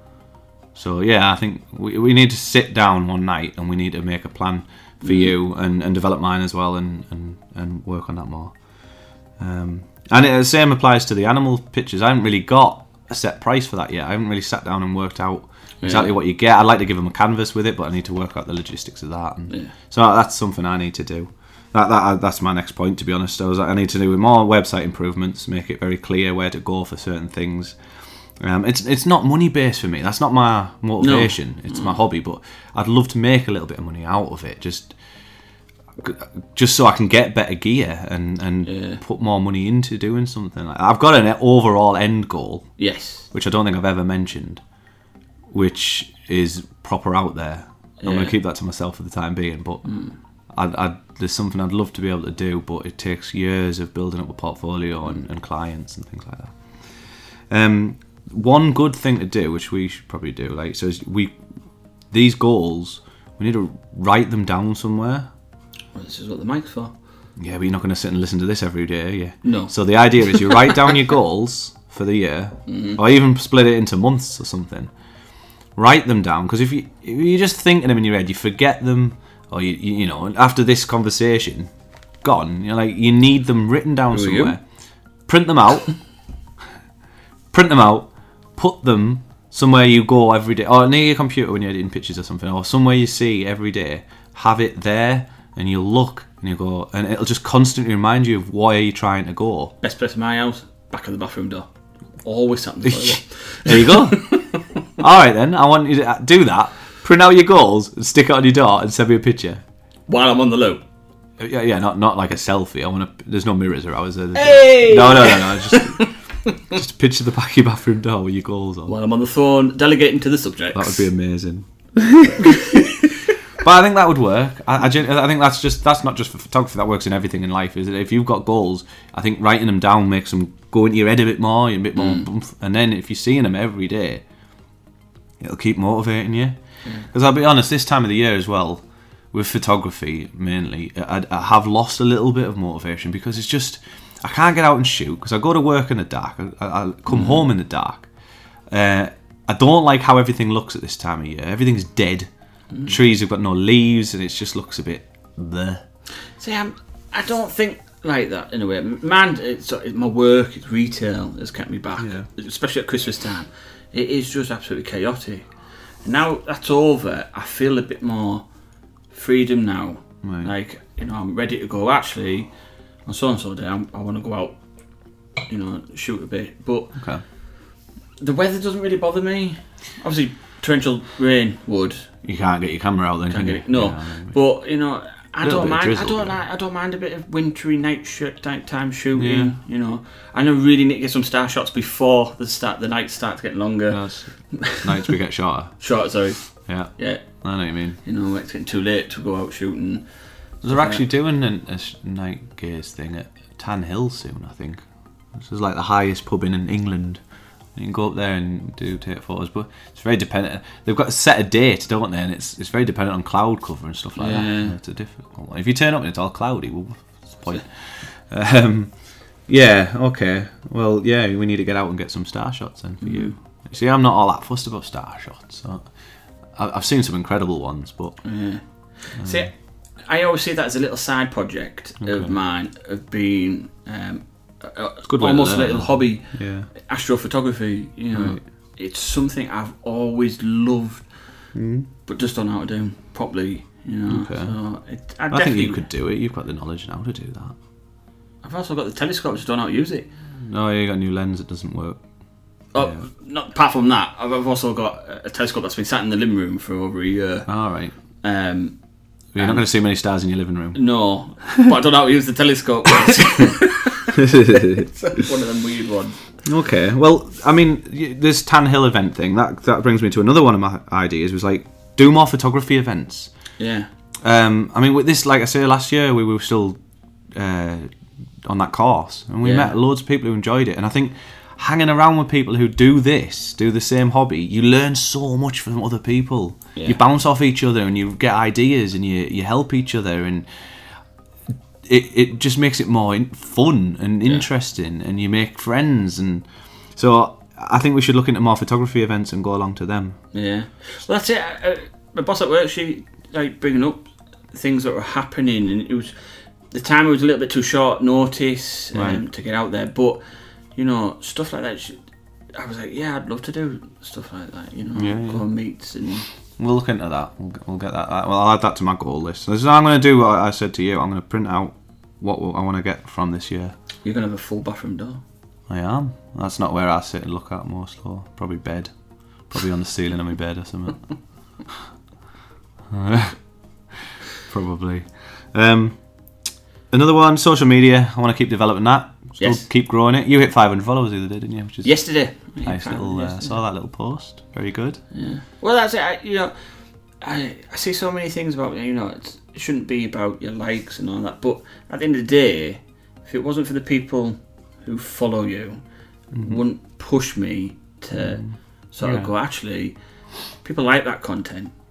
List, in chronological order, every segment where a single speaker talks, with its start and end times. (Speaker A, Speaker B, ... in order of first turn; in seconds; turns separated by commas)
Speaker A: 0.8-8.5, Speaker B: 5.0-5.3, Speaker A: 9.4-27.8, Speaker B: 15.8-16.1, Speaker A: 28.4-35.0, Speaker B: 31.0-32.0, Speaker A: 36.0-42.7, Speaker B: 38.7-39.0, Speaker B: 42.8-43.2, Speaker A: 43.3-44.6, Speaker A: 45.5-49.9, Speaker B: 48.0-48.4, Speaker B: 49.9-50.1, Speaker A: 50.5-56.6, Speaker A: 57.5-61.4, Speaker A: 62.1-65.3, Speaker B: 66.0-66.9, Speaker A: 67.4-74.9, Speaker B: 69.4-70.8, Speaker B: 72.7-73.0, Speaker A: 75.8-81.7, Speaker A: 82.2-84.6, Speaker B: 84.1-84.6, Speaker A: 85.3-85.9, Speaker A: 87.5-99.7, Speaker B: 99.8-101.7, Speaker B: 102.2-104.6, Speaker A: 102.8-104.4, Speaker A: 105.0-109.6, Speaker B: 110.1-110.8, Speaker A: 111.4-116.1, Speaker B: 114.3-116.1, Speaker A: 116.7-119.0, Speaker B: 118.9-121.1, Speaker A: 120.7-122.9, Speaker A: 123.6-134.2, Speaker B: 132.0-132.2, Speaker A: 135.4-148.1, Speaker B: 147.1-147.4, Speaker A: 148.7-152.3, Speaker A: 152.9-155.8, Speaker B: 156.4-165.4, Speaker A: 162.0-162.3, Speaker B: 166.0-168.4, Speaker B: 169.1-172.5, Speaker A: 170.2-170.5, Speaker B: 173.1-174.6, Speaker B: 175.5-176.9, Speaker A: 176.9-177.2, Speaker B: 178.2-182.1, Speaker A: 182.2-184.4, Speaker B: 183.3-194.0, Speaker A: 185.4-186.4, Speaker A: 189.2-189.5, Speaker A: 193.9-195.7, Speaker B: 194.5-195.1, Speaker B: 195.8-196.4, Speaker A: 196.7-198.0, Speaker B: 196.9-197.2, Speaker B: 198.0-200.1, Speaker B: 200.6-201.0, Speaker A: 200.6-204.8, Speaker A: 205.3-207.2, Speaker A: 207.8-217.7, Speaker B: 214.2-214.8, Speaker A: 218.3-218.9, Speaker A: 219.5-225.9, Speaker B: 223.0-223.3, Speaker A: 226.6-228.2, Speaker B: 228.2-229.5, Speaker A: 229.2-229.5, Speaker B: 230.0-241.1, Speaker A: 232.0-232.3, Speaker A: 235.1-236.7, Speaker A: 238.1-238.4, Speaker A: 241.6-241.9, Speaker B: 242.1-245.8, Speaker A: 244.1-244.6, Speaker A: 245.3-247.6, Speaker B: 248.4-250.1, Speaker A: 250.3-252.0, Speaker B: 252.7-257.5, Speaker A: 252.8-253.1, Speaker A: 257.5-257.9, Speaker B: 258.2-258.8, Speaker A: 259.3-260.8, Speaker B: 259.4-259.6, Speaker B: 260.7-266.2, Speaker A: 264.1-264.9, Speaker A: 266.4-273.3, Speaker B: 273.6-273.9, Speaker A: 274.2-276.8, Speaker A: 277.4-277.9, Speaker A: 278.4-290.5, Speaker B: 279.4-279.7, Speaker A: 291.5-300.2, Speaker B: 300.3-306.1, Speaker B: 306.7-310.2, Speaker A: 308.9-309.2, Speaker B: 310.8-312.0, Speaker B: 312.5-316.3, Speaker A: 314.9-315.4, Speaker A: 316.6-323.8, Speaker B: 324.0-325.2, Speaker A: 325.7-328.9, Speaker A: 329.5-331.1, Speaker A: 332.9-333.4, Speaker A: 334.5-336.0, Speaker A: 336.9-341.9, Speaker B: 339.4-339.6, Speaker B: 341.8-343.6, Speaker A: 342.6-345.0, Speaker B: 345.1-346.5, Speaker B: 347.2-355.8, Speaker A: 356.3-356.6, Speaker B: 356.4-360.0, Speaker A: 359.0-359.3, Speaker B: 360.6-361.7